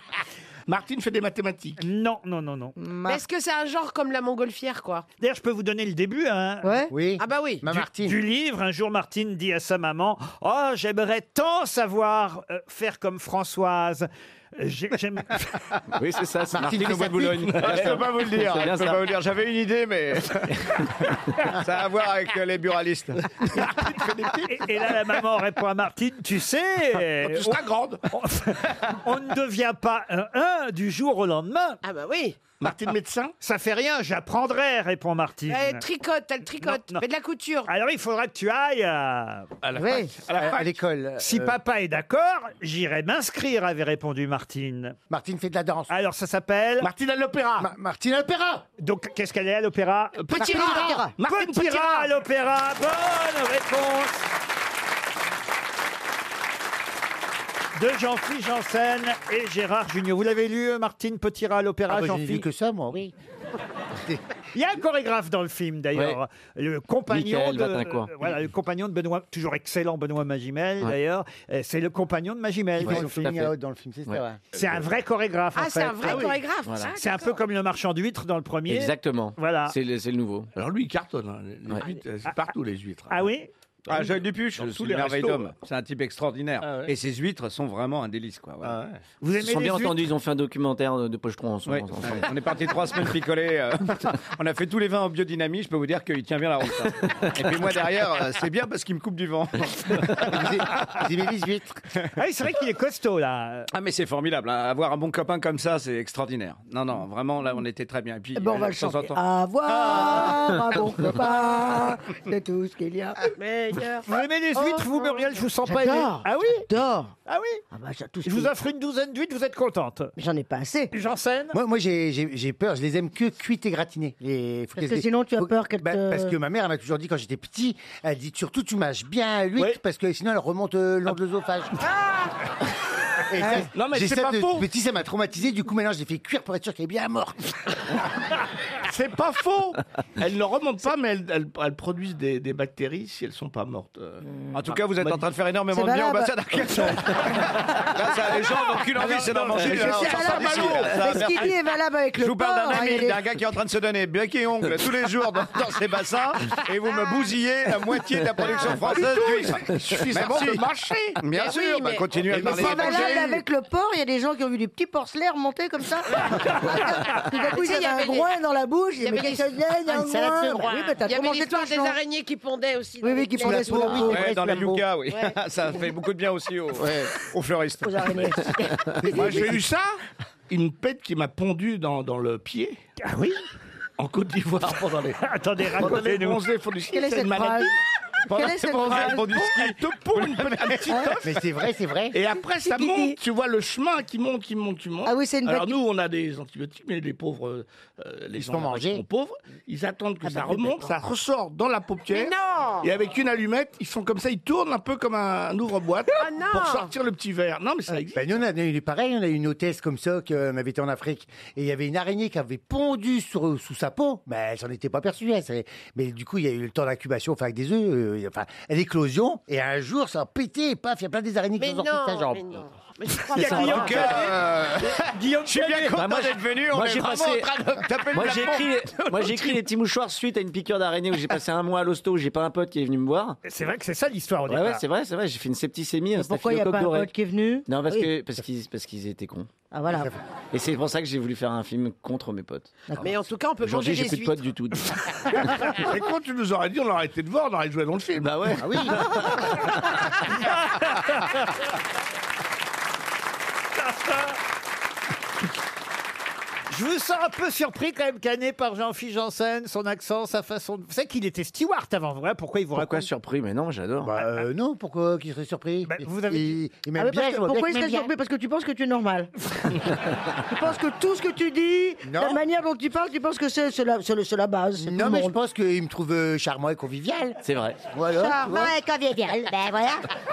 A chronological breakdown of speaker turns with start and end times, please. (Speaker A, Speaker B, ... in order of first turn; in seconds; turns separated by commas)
Speaker A: 0.7-1.8, Speaker B: 1.8-2.8, Speaker C: 2.8-3.2, Speaker D: 3.0-5.0, Speaker B: 5.2-6.8, Speaker C: 6.6-6.9, Speaker E: 6.9-8.2, Speaker D: 7.2-7.7, Speaker B: 7.7-15.7, Speaker F: 15.9-19.0, Speaker E: 16.5-17.5, Speaker A: 17.4-18.2, Speaker G: 17.6-24.0, Speaker A: 23.2-25.1, Speaker B: 24.4-31.8, Speaker A: 27.1-28.0, Speaker D: 31.8-32.5, Speaker A: 32.6-33.3, Speaker B: 33.4-35.8, Speaker D: 35.5-37.7, Speaker B: 36.6-37.0, Speaker B: 37.7-39.5, Speaker A: 39.6-40.8, Speaker C: 39.8-40.1, Speaker E: 40.3-41.6, Speaker B: 41.2-45.0, Speaker E: 45.1-45.9, Speaker B: 45.9-46.9, Speaker A: 46.8-47.7, Speaker E: 47.6-48.6, Speaker B: 48.8-54.3, Speaker A: 50.2-52.1, Speaker C: 50.4-51.1, Speaker B: 57.8-62.5, Speaker E: 61.9-63.1, Speaker B: 64.5-73.5, Speaker F: 67.1-68.3, Speaker E: 72.8-74.4, Speaker F: 72.8-73.5, Speaker B: 74.5-76.3, Speaker D: 75.5-77.4, Speaker F: 76.7-76.9, Speaker B: 77.0-79.8, Speaker F: 78.7-80.5, Speaker A: 80.6-83.3, Speaker B: 83.1-83.5, Speaker A: 83.9-85.5, Speaker G: 83.9-88.8, Speaker A: 86.6-86.9, Speaker A: 88.6-89.0, Speaker B: 89.2-90.0, Speaker F: 89.4-92.3, Speaker G: 91.7-100.6, Speaker E: 100.2-101.8, Speaker B: 102.2-103.7, Speaker G: 103.7-110.4, Speaker C: 108.3-113.3, Speaker D: 113.3-114.1, Speaker B: 114.1-116.7, Speaker D: 114.8-115.2, Speaker C: 115.6-117.1, Speaker B: 117.3-117.6, Speaker C: 117.7-118.5, Speaker B: 118.2-120.1, Speaker C: 120.2-120.9, Speaker B: 120.9-121.6, Speaker E: 121.5-131.9, Speaker C: 124.8-126.4, Speaker E: 133.3-137.6, Speaker C: 133.4-133.7, Speaker A: 133.7-134.7, Speaker A: 138.8-145.3, Speaker G: 144.5-151.5, Speaker C: 145.7-146.9, Speaker A: 149.0-151.3, Speaker C: 149.6-153.2, Speaker G: 152.2-160.7, Speaker D: 158.5-158.7, Speaker A: 158.8-161.2, Speaker G: 161.2-163.4, Speaker D: 161.3-162.6, Speaker A: 162.3-163.3, Speaker C: 162.4-172.0, Speaker D: 167.5-168.3, Speaker D: 169.0-174.2, Speaker E: 169.9-170.6, Speaker C: 173.0-174.3, Speaker E: 173.4-174.9, Speaker G: 174.0-178.5, Speaker D: 175.1-175.3, Speaker C: 177.8-179.6, Speaker A: 179.1-182.8, Speaker B: 183.0-183.4, Speaker A: 184.0-185.2, Speaker B: 185.2-186.4, Speaker A: 185.8-187.8, Speaker C: 186.9-187.7, Speaker G: 188.3-191.0, Speaker C: 188.3-189.5, Speaker A: 188.8-191.5, Speaker E: 191.2-192.2, Speaker A: 192.1-208.3, Speaker C: 192.7-193.2, Speaker C: 195.1-195.8, Speaker E: 198.4-199.0, Speaker C: 200.2-200.9, Speaker D: 202.1-202.9, Speaker D: 206.1-206.9, Speaker E: 208.1-222.6, Speaker D: 221.6-224.3, Speaker G: 223.3-229.5, Speaker B: 223.3-226.1, Speaker F: 226.0-233.4, Speaker B: 233.4-234.8, Speaker F: 234.5-237.1, Speaker C: 236.2-238.1, Speaker F: 237.7-239.5, Speaker C: 239.7-240.1, Speaker E: 239.9-240.2, Speaker F: 240.5-245.4, Speaker D: 243.0-244.5, Speaker A: 245.5-248.7, Speaker F: 248.2-249.7, Speaker E: 248.6-249.6, Speaker B: 250.9-251.2, Speaker B: 253.8-254.4, Speaker B: 256.7-263.1, Speaker F: 262.8-264.1, Speaker E: 264.0-268.1, Speaker B: 265.9-266.6, Speaker C: 267.0-269.3, Speaker C: 270.5-275.3, Speaker E: 272.0-272.4, Speaker E: 274.8-278.8, Speaker F: 277.4-277.8, Speaker C: 278.1-280.1